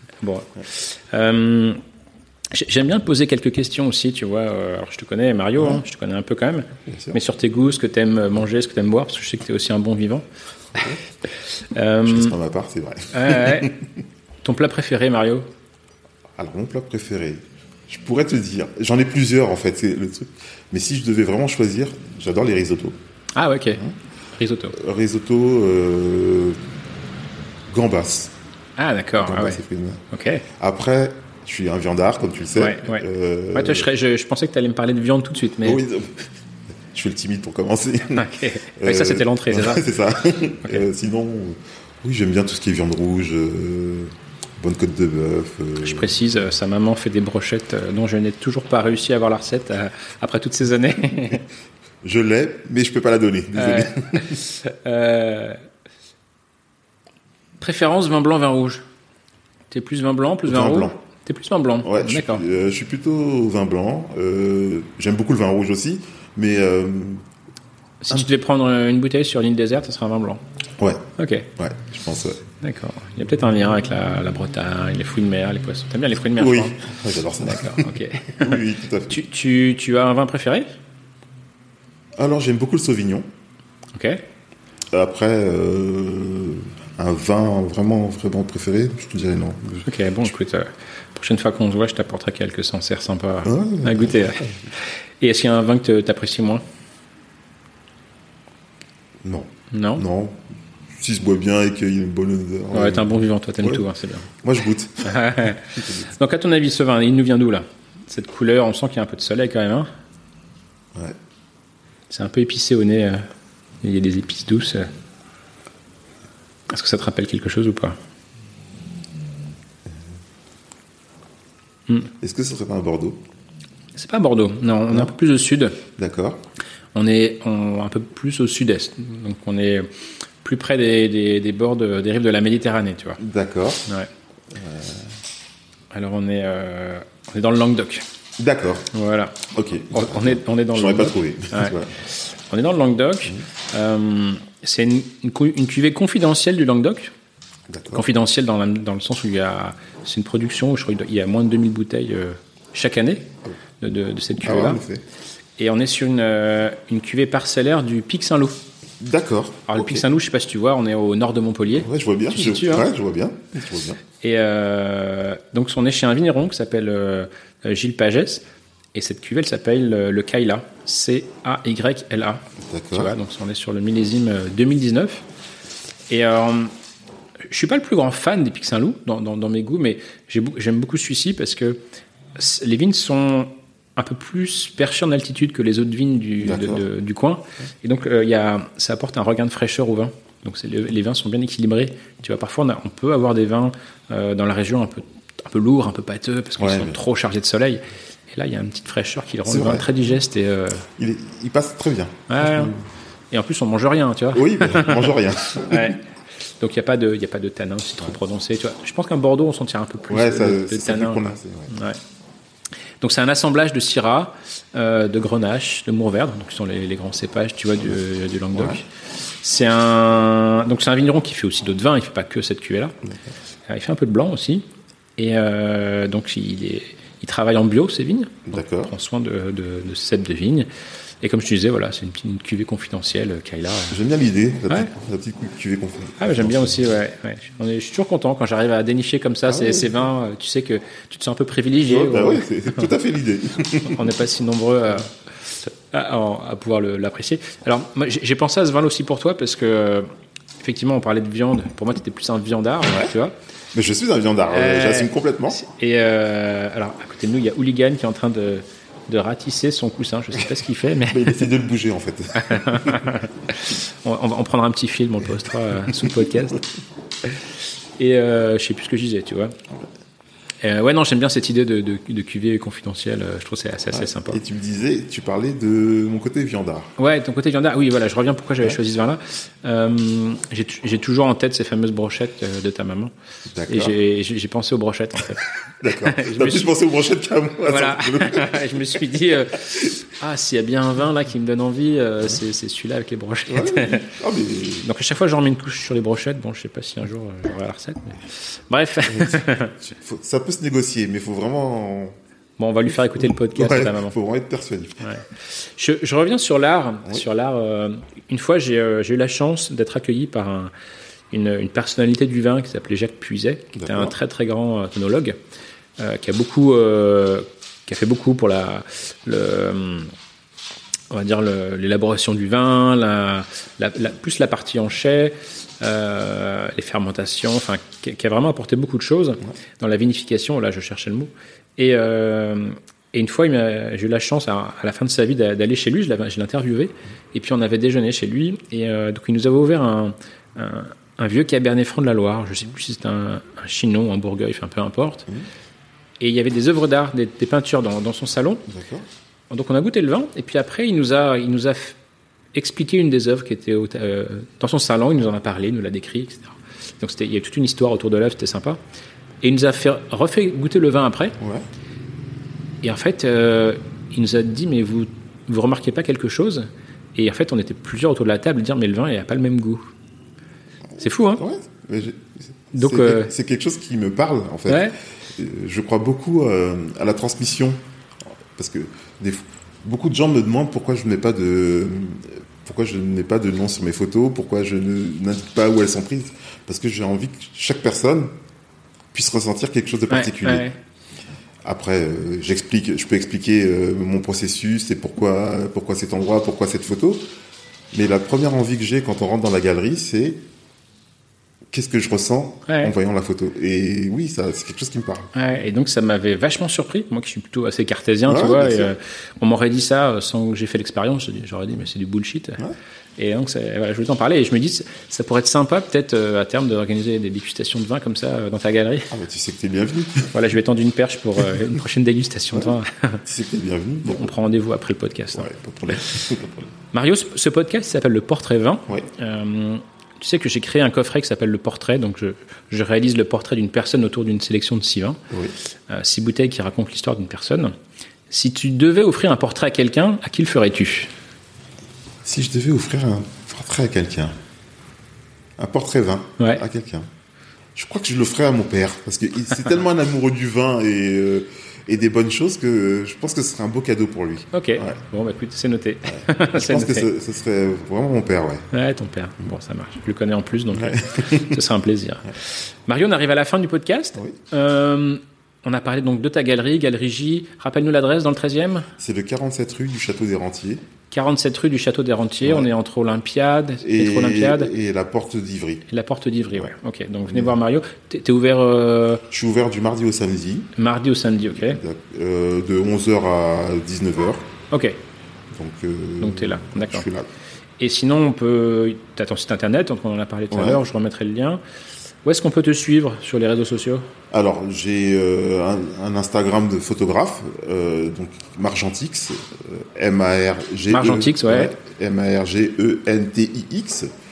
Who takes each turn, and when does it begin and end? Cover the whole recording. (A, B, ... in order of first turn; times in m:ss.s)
0:00.2-0:01.8 A
0:02.5-0:10.2 A
0:05.6-0:05.8 B
0:06.8-0:07.2 B
0:10.7-0:11.0 B
0:11.5-0:12.3 A
0:12.0-0:13.8 B
0:13.1-0:13.7 A
0:14.4-0:15.4 A
0:16.4-0:23.0 B
0:23.4-0:23.8 A
0:24.3-0:24.8 A
0:24.7-0:26.6 B
0:27.7-0:28.3 B
0:28.8-0:30.4 A
0:29.2-0:30.0 B
0:30.6-0:33.9 B
0:32.6-0:35.8 A
0:35.6-0:36.2 B
0:36.9-0:46.2 B
0:38.1-0:39.9 A
0:45.8-0:51.4 A
0:52.0-0:54.4 B
0:53.6-0:55.6 A
0:57.6-0:58.8 A
0:59.7-1:02.4 A
1:00.4-1:01.0 B
1:01.8-1:07.2 B
1:08.0-1:10.4 A
1:10.8-1:11.0 B
1:11.2-1:11.5 A
1:11.6-1:12.4 B
1:12.6-1:16.8 A
1:16.4-1:19.2 B
1:17.4-1:20.8 A
1:22.2-1:23.2 B
1:23.9-1:24.2 A
1:24.9-1:29.9 B
1:29.8-1:36.6 A
1:33.4-1:34.6 B
1:39.2-1:43.8 B
1:39.7-1:40.0 A
1:42.7-1:44.3 A
1:44.4-1:45.2 B
1:45.0-1:49.9 A
1:45.7-1:46.1 B
1:52.1-1:53.3 A
1:53.8-1:54.9 A
1:56.7-1:58.0 A
2:02.2-2:03.2 B
2:04.0-2:05.8 A
2:06.0-2:06.4 B
2:06.9-2:09.9 A
2:10.4-2:13.2 A
2:13.2-2:13.9 B
2:14.5-2:15.1 B
2:15.9-2:18.0 A
2:18.4-2:18.9 B
2:18.9-2:27.1 A
2:19.5-2:22.0 B
2:27.7-2:28.0 B
2:27.9-2:33.3 A
2:33.8-2:34.8 A
2:34.4-2:35.0 B
2:35.6-2:38.6 A
2:39.0-2:40.0 B
2:39.7-2:42.9 A
2:41.8-2:44.0 B
2:44.2-2:48.4 A
2:48.9-2:55.2 A
2:52.6-2:53.1 B
2:56.1-2:56.7 A
2:57.5-3:01.8 A
3:02.4-3:20.8 A
3:06.4-3:06.8 B
3:16.6-3:17.0 B
3:19.4-3:19.9 B
3:21.0-3:22.8 B
3:22.3-3:22.7 A
3:23.3-3:26.0 A
3:24.3-3:26.0 B
3:26.6-3:32.0 A
3:30.1-3:31.7 B
3:33.0-3:38.9 A
3:38.5-3:38.8 B
3:39.4-3:43.0 A
3:43.0-3:43.3 B
3:43.7-3:44.6 A
3:45.2-3:50.7 A
3:48.5-3:48.9 B
3:51.2-3:54.0 A
3:53.9-3:56.9 B
3:56.2-4:02.9 A
3:59.5-3:59.9 B
4:01.8-4:04.0 B
4:03.8-4:05.1 A
4:05.7-4:10.1 A
4:10.6-4:13.3 A
4:13.7-4:15.6 B
4:14.5-4:21.4 A
4:21.1-4:23.2 B
4:22.3-4:26.6 A
4:25.8-4:26.3 B
4:28.0-4:29.6 A
4:30.6-4:34.4 A
4:33.9-4:36.9 B
4:37.0-4:43.1 A
4:43.5-4:44.0 B
4:43.7-4:46.7 A
4:45.3-4:49.0 B
4:47.6-4:54.1 A
4:49.6-4:49.9 B
4:53.5-4:54.9 B
4:54.8-4:59.8 A
4:59.1-5:02.2 B
5:02.6-5:04.1 A
5:03.2-5:05.1 B
5:05.0-5:10.7 A
5:11.3-5:15.4 A
5:13.7-5:14.1 B
5:16.0-5:20.1 A
5:21.1-5:45.3 A
5:46.2-5:48.6 A
5:48.7-5:49.1 B
5:49.5-5:52.0 A
5:52.5-5:58.8 A
5:59.4-6:01.4 A
6:01.4-6:01.6 B
6:02.8-6:09.8 A
6:11.0-6:11.4 A
6:11.4-6:17.8 B
6:12.7-6:13.3 A
6:14.7-6:14.9 A
6:18.5-6:28.3 B
6:29.1-6:30.7 B
6:30.1-6:30.8 A
6:31.6-6:37.3 B
6:37.9-6:40.4 B
6:41.7-6:45.3 B
6:42.7-6:42.9 A
6:45.3-6:52.6 A
6:48.2-6:48.9 B
6:53.2-6:59.1 A
6:59.1-7:00.3 B
7:00.3-7:03.2 A
7:03.2-7:04.3 B
7:04.0-7:06.2 A
7:05.3-7:06.7 B
7:06.9-7:15.2 A
7:15.3-7:15.5 B
7:15.9-7:17.7 A
7:18.3-7:21.1 A
7:22.2-7:24.3 B
7:25.6-7:27.1 B
7:27.7-7:35.0 B
7:34.5-7:37.1 A
7:36.1-7:38.7 B
7:38.7-7:48.9 A
7:40.7-7:41.6 B
7:49.0-7:50.8 B
7:51.1-7:54.7 A
7:53.8-7:55.8 B
7:55.9-7:59.2 A
7:57.3-7:57.6 B
7:59.3-8:00.7 B
8:00.8-8:01.8 A
8:01.5-8:04.5 B
8:04.7-8:05.0 A
8:05.5-8:07.3 B
8:06.2-8:07.1 A
8:07.8-8:11.6 A
8:10.5-8:10.8 B
8:12.2-8:14.1 A
8:14.3-8:24.1 B
8:20.9-8:21.7 A